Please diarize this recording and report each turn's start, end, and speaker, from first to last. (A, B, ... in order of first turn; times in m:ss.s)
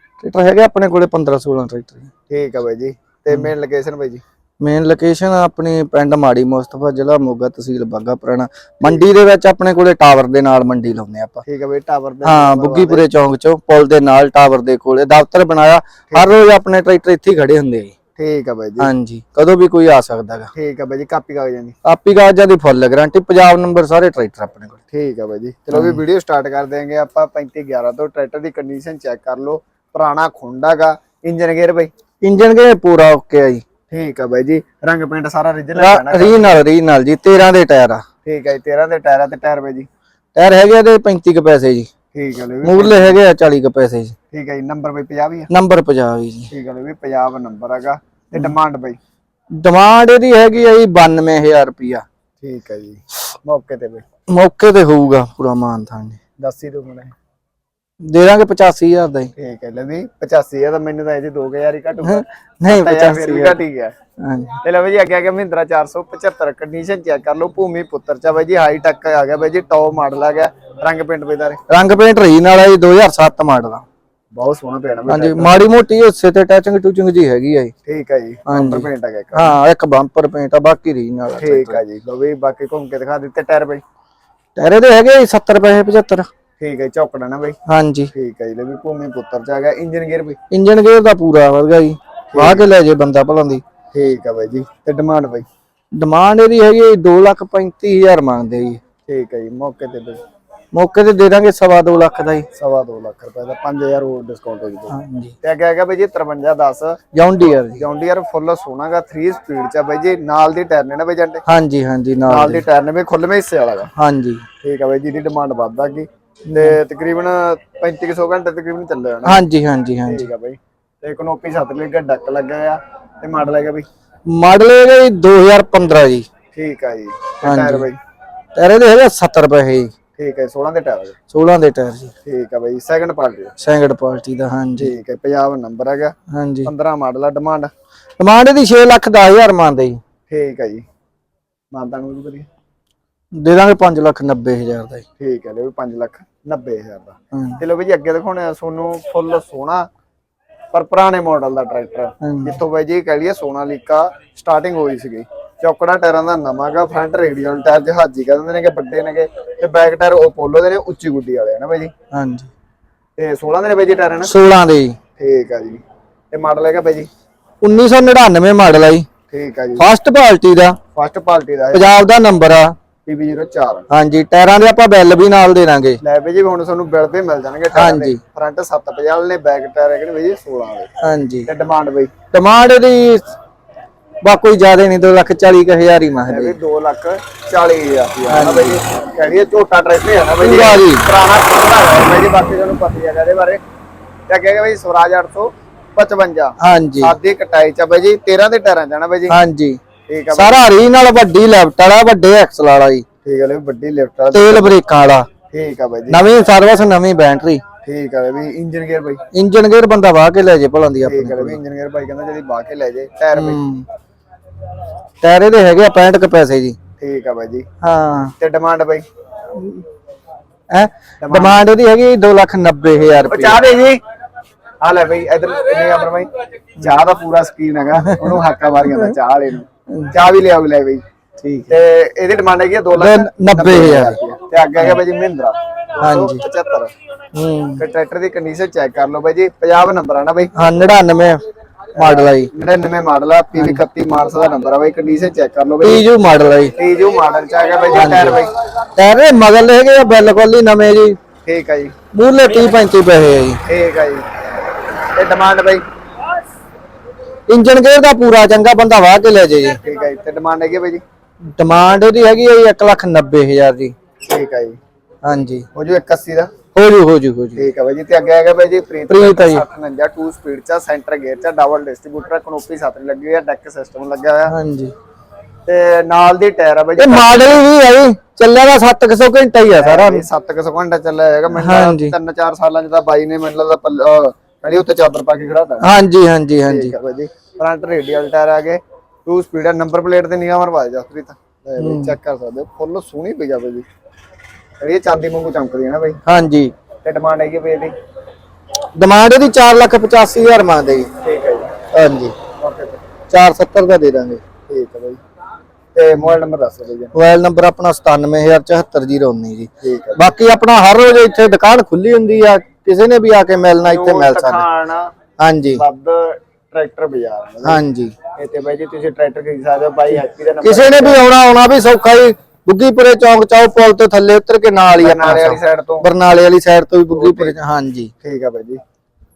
0:00.2-0:02.1 A
0:02.3-0:04.2 B
0:04.6-0:11.4 A
0:11.4-0:13.0 B
0:12.2-0:17.9 A
0:16.1-0:16.4 B
0:18.2-0:18.9 B
0:18.8-0:20.5 A
0:20.5-0:21.7 B
0:21.8-0:24.8 A
0:24.9-0:31.9 B
0:25.7-0:26.0 A
0:32.2-0:33.6 A
0:33.9-0:36.6 B
0:35.8-0:38.0 A
0:38.2-0:39.9 B
0:40.3-0:41.9 A
0:42.1-0:43.2 B
0:42.6-0:44.1 A
0:44.3-0:45.5 B
0:45.5-0:46.5 A
0:46.5-0:49.0 B
0:49.6-0:52.0 A
0:52.4-0:54.0 B
0:54.3-0:56.2 A
0:56.4-0:57.1 B
0:58.0-0:59.3 A
0:59.4-1:03.9 B
1:02.0-1:03.6 A
1:04.2-1:04.6 A
1:04.6-1:11.6 B
1:11.7-1:13.8 A
1:14.3-1:15.6 B
1:15.1-1:17.7 A
1:17.8-1:19.5 B
1:18.5-1:21.8 A
1:21.4-1:23.8 B
1:24.6-1:26.3 A
1:26.6-1:27.6 B
1:27.6-1:28.1 A
1:28.1-1:30.4 B
1:30.5-1:33.6 A
1:32.3-1:32.6 B
1:33.9-1:35.4 B
1:35.9-1:38.8 A
1:39.1-1:40.2 B
1:40.7-1:42.5 A
1:42.5-1:47.0 B
1:44.9-1:45.3 A
1:47.1-1:47.8 A
1:47.8-1:51.4 B
1:51.4-1:52.6 A
1:52.3-1:53.9 B
1:53.9-1:54.4 A
1:54.6-1:59.4 B
1:56.5-1:56.8 A
1:59.2-2:00.3 A
2:00.0-2:03.8 B
2:04.3-2:06.3 A
2:06.5-2:08.0 B
2:07.4-2:07.8 A
2:08.5-2:09.9 A
2:10.2-2:11.1 B
2:11.3-2:12.1 A
2:12.2-2:13.5 B
2:13.6-2:14.9 A
2:14.8-2:16.1 B
2:16.3-2:16.7 A
2:16.6-2:17.7 B
2:18.2-2:20.0 A
2:20.3-2:20.8 B
2:21.7-2:22.5 B
2:23.4-2:25.0 A
2:25.2-2:29.9 B
2:27.3-2:27.6 A
2:30.7-2:41.9 B
2:32.2-2:32.6 A
2:42.1-2:42.5 A
2:43.2-2:44.3 B
2:44.2-2:45.0 A
2:45.2-2:47.1 B
2:47.6-2:49.1 A
2:49.3-2:49.9 B
2:49.8-2:50.8 A
2:50.9-2:51.9 B
2:51.7-2:52.7 A
2:53.0-2:53.8 B
2:53.9-2:56.0 A
2:56.0-3:00.9 B
2:57.7-2:58.2 A
3:01.0-3:01.5 A
3:01.4-3:02.1 B
3:02.3-3:03.3 A
3:04.2-3:06.6 A
3:06.3-3:13.6 B
3:08.3-3:08.8 A
3:10.4-3:11.0 A
3:14.3-3:19.4 B
3:16.6-3:17.1 A
3:19.3-3:19.8 A
3:20.1-3:20.6 B
3:20.3-3:23.0 A
3:23.2-3:24.8 B
3:24.3-3:25.3 A
3:25.5-3:26.2 B
3:26.1-3:27.6 A
3:27.8-3:29.2 B
3:29.3-3:31.6 A
3:31.0-3:33.6 B
3:33.3-3:33.8 A
3:35.2-3:36.8 A
3:37.0-3:37.7 B
3:37.8-3:38.3 A
3:38.4-3:39.0 B
3:39.5-3:39.8 A
3:40.7-3:43.6 A
3:41.2-3:41.6 B
3:43.2-3:44.0 B
3:44.8-3:51.0 B
3:47.9-3:49.1 A
3:51.4-3:51.7 A
3:51.7-3:56.9 B
3:52.9-3:54.2 A
3:56.0-3:56.4 A
3:57.3-3:57.8 A
3:57.8-4:00.5 B
4:00.5-4:01.4 A
4:02.0-4:02.5 A
4:02.0-4:06.0 B
4:03.5-4:03.8 A
4:05.8-4:06.7 A
4:06.8-4:08.5 B
4:07.9-4:08.4 A
4:09.0-4:11.2 A
4:11.4-4:11.9 B
4:12.1-4:13.6 A
4:13.6-4:14.2 B
4:15.1-4:15.8 B
4:17.5-4:19.8 A
4:19.8-4:21.0 B
4:21.5-4:23.9 A
4:24.2-4:24.8 B
4:25.2-4:25.6 A
4:25.7-4:26.5 B
4:26.7-4:27.7 A
4:27.6-4:34.5 B
4:29.1-4:29.6 A
4:34.5-4:34.9 A
4:35.6-4:37.6 B
4:37.0-4:40.3 A
4:39.8-4:45.9 B
4:41.5-4:42.1 A
4:45.8-4:46.9 A
4:46.6-4:53.8 B
4:51.8-4:52.2 A
4:54.8-4:56.2 B
4:56.2-4:56.7 A
4:57.0-4:57.9 B
4:59.0-5:01.1 A
5:01.2-5:01.7 B
5:01.9-5:02.3 A
5:02.6-5:03.0 B
5:03.3-5:04.4 A
5:04.7-5:05.2 B
5:05.9-5:07.1 B
5:07.1-5:14.6 A
5:09.8-5:10.3 B
5:13.8-5:15.1 B
5:15.4-5:15.8 A
5:15.7-5:17.8 B
5:17.6-5:18.1 A
5:18.4-5:21.2 B
5:20.6-5:28.1 A
5:25.0-5:26.0 B
5:27.1-5:27.5 B
5:28.2-5:28.8 B